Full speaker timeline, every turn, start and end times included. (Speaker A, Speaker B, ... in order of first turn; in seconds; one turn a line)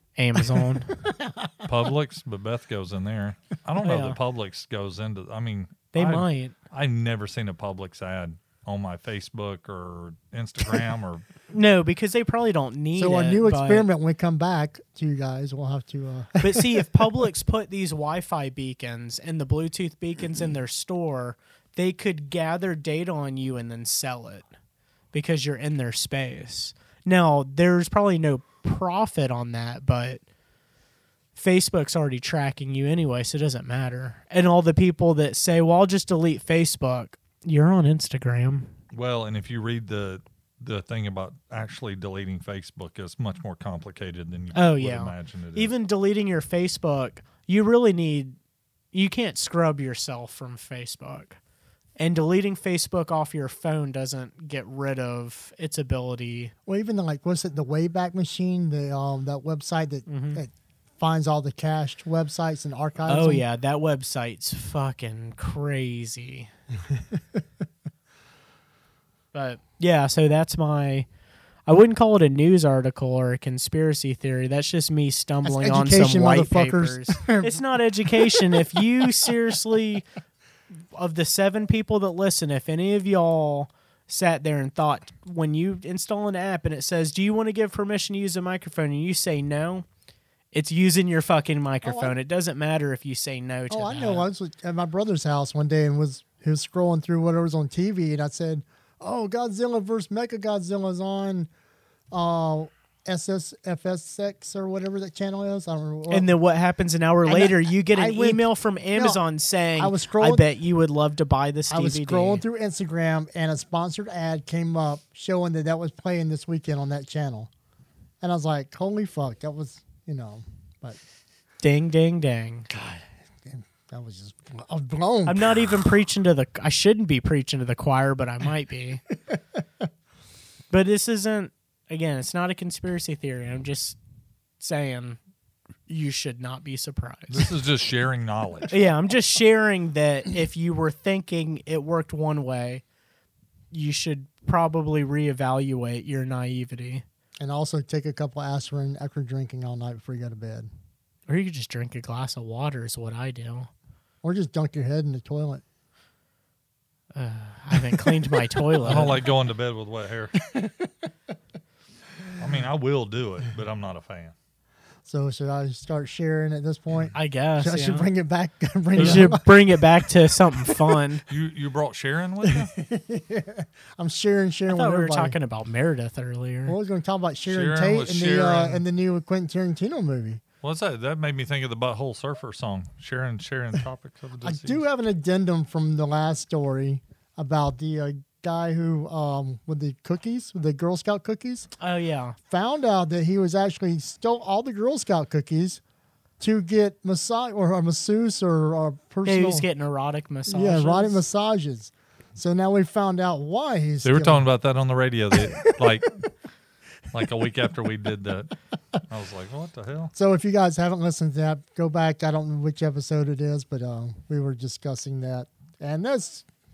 Speaker A: 0.2-1.0
Speaker B: 0.4-1.5
Speaker C: 1.6-11.2
Speaker A: 3.8-4.2
Speaker A: 5.9-6.5
Speaker A: 11.5-13.8
Speaker B: 12.9-17.1
Speaker A: 16.4-24.5
Speaker A: 25.1-30.2
Speaker A: 31.3-38.7
Speaker C: 38.9-45.7
Speaker A: 44.5-48.4
Speaker A: 48.9-51.4
Speaker A: 52.0-56.5
Speaker B: 56.6-63.4
Speaker A: 60.1-60.4
Speaker A: 63.1-66.5
Speaker B: 66.9-67.2
Speaker A: 69.3-71.1
Speaker A: 71.7-80.0
Speaker B: 75.4-78.4
Speaker A: 80.9-89.8
Speaker A: 90.5-94.3
Speaker B: 91.8-92.1
Speaker B: 93.7-101.5
Speaker B: 102.1-106.3
Speaker A: 106.1-112.4
Speaker B: 107.2-109.2
Speaker B: 109.8-110.4
Speaker B: 111.7-117.5
Speaker B: 118.2-121.0
Speaker A: 121.6-122.7
Speaker B: 122.7-125.7
Speaker A: 125.2-129.0
Speaker A: 130.7-134.0
Speaker A: 134.6-135.2
Speaker A: 135.9-137.5
Speaker C: 137.3-138.7
Speaker A: 138.7-142.8
Speaker A: 143.7-147.0
Speaker B: 147.4-150.7
Speaker A: 151.3-153.7
Speaker B: 154.2-155.6
Speaker A: 157.1-159.2
Speaker C: 158.8-160.3
Speaker B: 158.8-159.1
Speaker B: 160.4-160.9
Speaker C: 162.4-164.3
Speaker B: 165.1-169.7
Speaker A: 167.1-168.1
Speaker A: 168.9-171.2
Speaker C: 169.0-169.3
Speaker C: 171.3-172.7
Speaker B: 172.4-175.3
Speaker A: 174.7-176.7
Speaker B: 176.7-180.4
Speaker C: 177.5-178.8
Speaker C: 180.6-184.8
Speaker B: 184.4-191.7
Speaker A: 191.8-192.4
Speaker B: 192.5-195.8
Speaker B: 196.4-199.7
Speaker A: 199.2-201.2
Speaker B: 200.5-204.4
Speaker C: 204.0-206.2
Speaker B: 205.6-205.8
Speaker C: 207.1-208.5
Speaker C: 209.1-210.1
Speaker B: 210.1-216.4